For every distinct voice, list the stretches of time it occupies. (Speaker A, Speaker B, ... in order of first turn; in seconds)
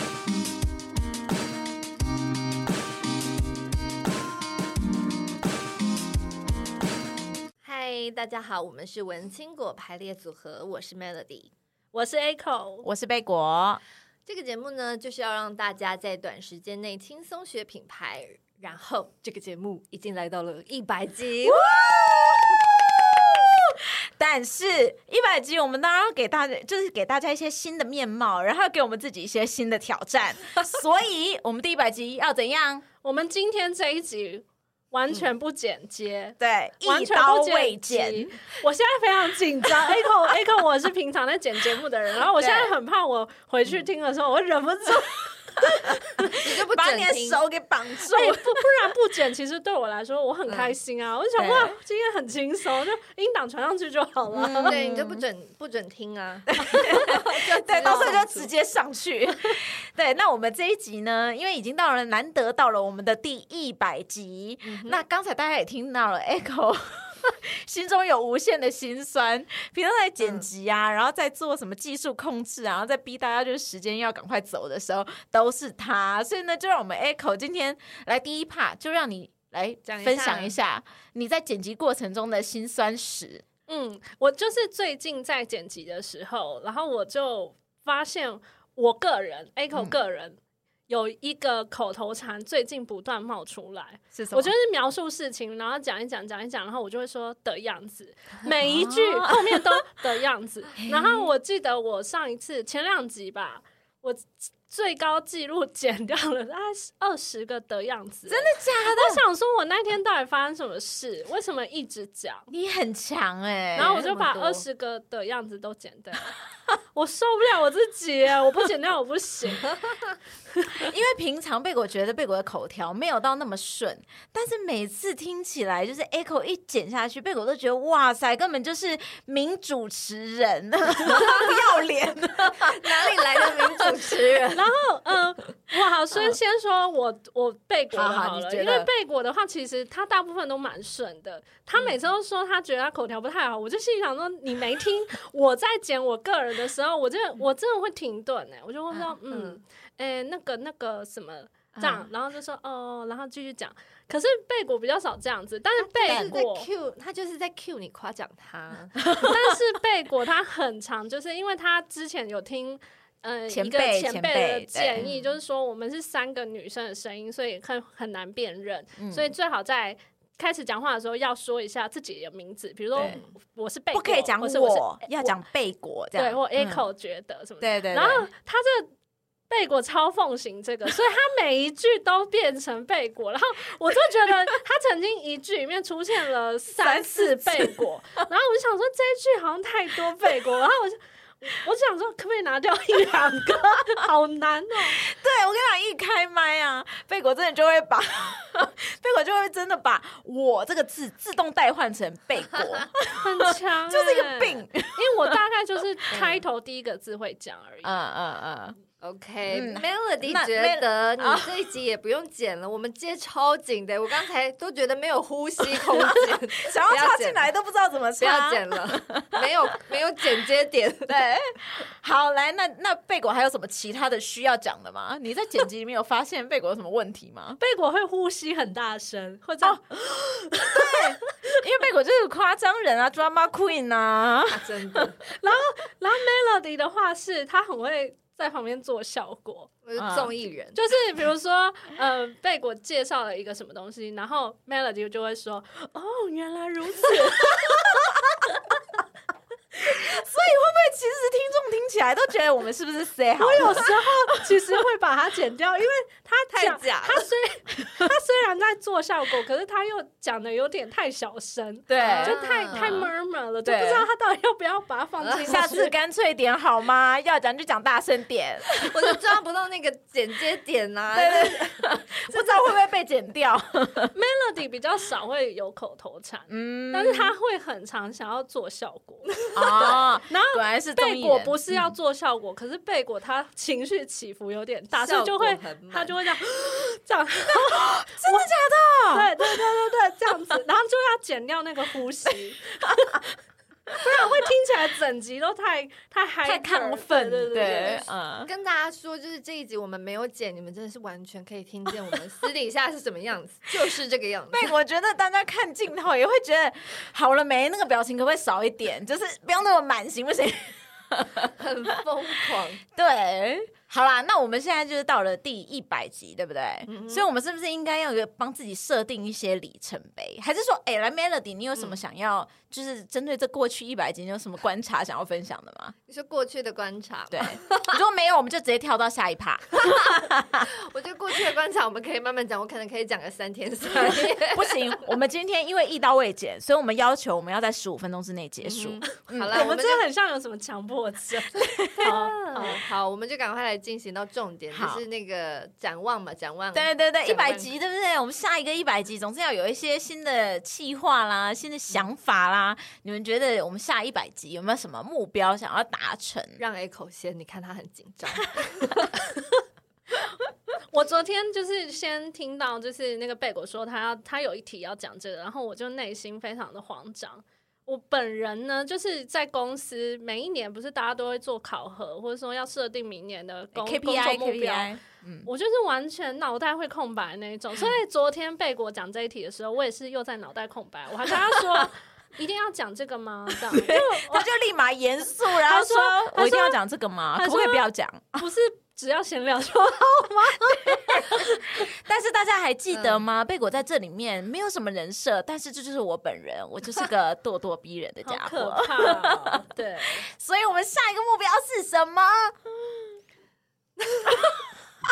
Speaker A: 7.6-11.5, 14.2-21.7, 46.4-47.4, 50.5-50.8, 54.7-58.5, 64.6-65.0, 70.2-70.5, 79.8-80.5, 113.8-114.6, 131.0-131.8, 132.4-134.7, 149.3-149.6, 155.8-159.1, 164.9-165.3, 172.9-173.3, 206.1-206.4, 209.0-217.5, 218.2-221.2, 234.5-235.2, 239.8-240.8, 253.6-253.9, 256.5-257.3, 262.0-263.0, 265.2-265.7, 268.8-272.7, 279.4-280.0, 284.9-286.1, 297.6-297.9, 298.4-304.7, 311.6-312.8, 316.9-317.3, 321.8-322.0, 326.1-328.0, 330.6-335.0, 338.6-340.0, 341.9-347.7, 356.6-359.2, 392.9-393.2, 404.0-404.6
Speaker B: 11.9-12.9, 33.0-46.3, 48.0-54.8, 57.8-58.2, 83.7-112.5, 113.8-116.3, 116.9-119.8, 134.5-156.7, 159.2-175.3, 176.1-178.9, 179.5-195.0, 203.2-207.9, 227.6-231.3, 235.2-239.7, 240.7-247.8, 253.4-265.9, 274.1-279.4, 280.3-288.5, 289.1-292.8, 294.0-298.1, 339.5-342.8, 360.9-374.9, 375.4-384.5, 385.5-386.8, 387.3-387.9, 388.4-391.8, 398.2-400.2
Speaker C: 12.8-13.8, 21.4-23.4, 24.2-32.8, 36.4-38.3, 42.4-42.7, 46.5-48.6, 51.4-51.7, 54.3-55.2, 56.6-83.5, 94.1-94.5, 98.7-99.8, 100.8-101.3, 108.3-109.2, 112.5-114.0, 120.8-134.0, 137.9-138.9, 151.7-152.1, 156.0-156.3, 163.5-165.1, 169.0-169.3, 173.9-176.8, 177.6-178.3, 186.8-187.7, 195.0-203.2, 203.9-205.3, 207.8-208.8, 209.5-211.5, 216.0-219.4, 221.1-227.6, 230.6-234.7, 240.0-240.3, 249.8-254.8, 261.9-263.1, 263.6-264.1, 265.4-269.2, 271.1-274.1, 276.5-277.3, 279.5-281.9, 287.7-289.5, 296.4-298.5, 304.5-311.5, 312.9-325.9, 327.3-330.7, 333.9-339.7, 344.7-345.0, 346.7-356.6, 373.8-375.5, 383.7-388.4, 391.3-399.5, 400.3-403.1